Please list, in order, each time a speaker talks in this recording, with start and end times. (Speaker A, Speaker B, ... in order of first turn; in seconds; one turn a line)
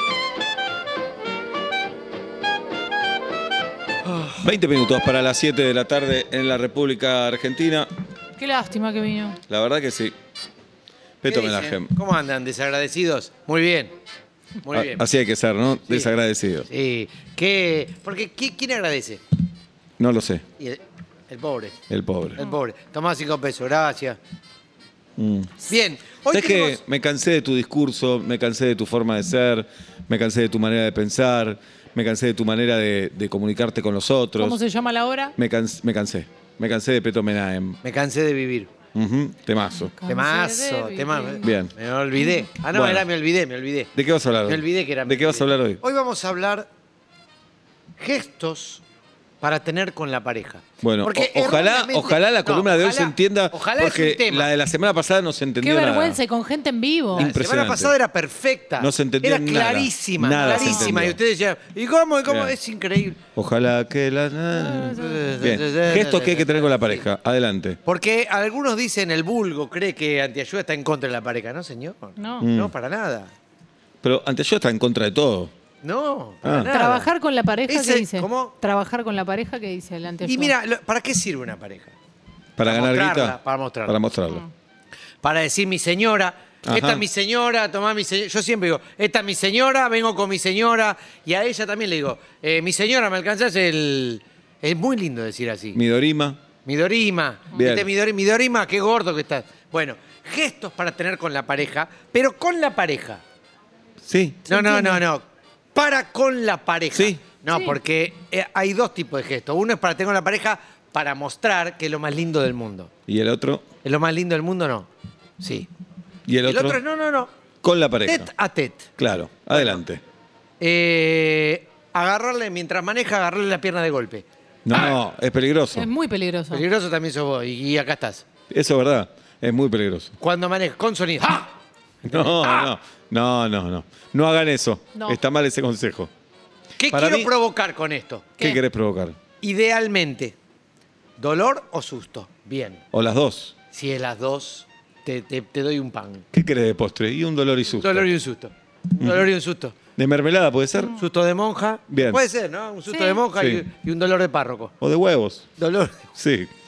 Speaker A: 4.4-7.9
Speaker B: 8.4-9.4
Speaker A: 9.5-10.1
Speaker A: 11.2-11.9
Speaker C: 11.2-13.9
Speaker C: 14.6-15.0
Speaker A: 14.7-16.7
Speaker C: 15.9-19.2
Speaker A: 20.0-20.4
Speaker C: 20.6-21.8
Speaker A: 21.9-22.4
Speaker C: 22.3-24.2
Speaker A: 25.2-25.5
Speaker C: 25.6-26.8
Speaker A: 26.3-34.6
Speaker B: 34.4-35.3
Speaker A: 35.4-37.8
Speaker C: 37.8-38.7
Speaker A: 38.9-39.9
Speaker B: 39.9-41.6
Speaker C: 40.1-43.9
Speaker A: 41.4-41.7
Speaker B: 42.2-42.5
Speaker A: 42.7-43.1
Speaker A: 43.9-45.8
Speaker C: 44.4-46.7
Speaker C: 48.0-48.8
Speaker C: 49.4-54.5
Speaker A: 50.8-56.2
Speaker B: 55.6-57.3
Speaker A: 57.1-57.9
Speaker C: 57.1-63.2
Speaker A: 58.8-61.2
Speaker B: 60.4-61.0
Speaker A: 62.2-62.5
Speaker A: 63.4-67.8
Speaker B: 64.5-65.6
Speaker C: 64.9-67.1
Speaker C: 67.8-73.3
Speaker B: 72.2-72.5
Speaker A: 72.4-72.7
Speaker A: 74.0-75.5
Speaker C: 75.8-77.1
Speaker A: 76.4-76.7
Speaker B: 76.7-80.5
Speaker C: 77.7-78.6
Speaker C: 80.2-81.9
Speaker A: 82.6-84.4
Speaker C: 82.6-84.0
Speaker C: 85.2-95.8
Speaker A: 86.6-87.0
Speaker A: 95.7-96.4
Speaker C: 96.6-103.2
Speaker A: 97.5-97.9
Speaker A: 104.0-104.4
Speaker B: 104.5-105.0
Speaker C: 104.5-112.9
Speaker A: 106.9-107.2
Speaker B: 107.5-107.8
Speaker A: 113.1-113.6
Speaker C: 113.8-114.9
Speaker C: 115.4-115.7
Speaker A: 116.2-116.8
Speaker C: 116.4-117.3
Speaker A: 117.6-118.3
Speaker C: 118.0-118.9
Speaker A: 119.0-120.0
Speaker C: 119.5-119.8
Speaker C: 120.6-124.9
Speaker A: 124.7-125.9
Speaker B: 125.7-126.6
Speaker C: 126.5-128.2
Speaker A: 128.5-130.1
Speaker C: 130.2-131.5
Speaker A: 132.0-136.1
Speaker C: 132.1-132.7
Speaker C: 136.8-138.3
Speaker A: 136.9-137.3
Speaker A: 138.4-139.2
Speaker C: 139.4-140.3
Speaker C: 141.2-142.8
Speaker A: 142.9-143.5
Speaker C: 143.7-146.2
Speaker A: 146.3-148.1
Speaker C: 147.8-149.8
Speaker A: 149.0-149.3
Speaker A: 149.9-151.0
Speaker C: 150.9-154.7
Speaker A: 151.9-152.2
Speaker B: 152.9-153.2
Speaker A: 153.3-153.6
Speaker A: 154.8-155.5
Speaker C: 155.6-156.1
Speaker A: 156.2-156.5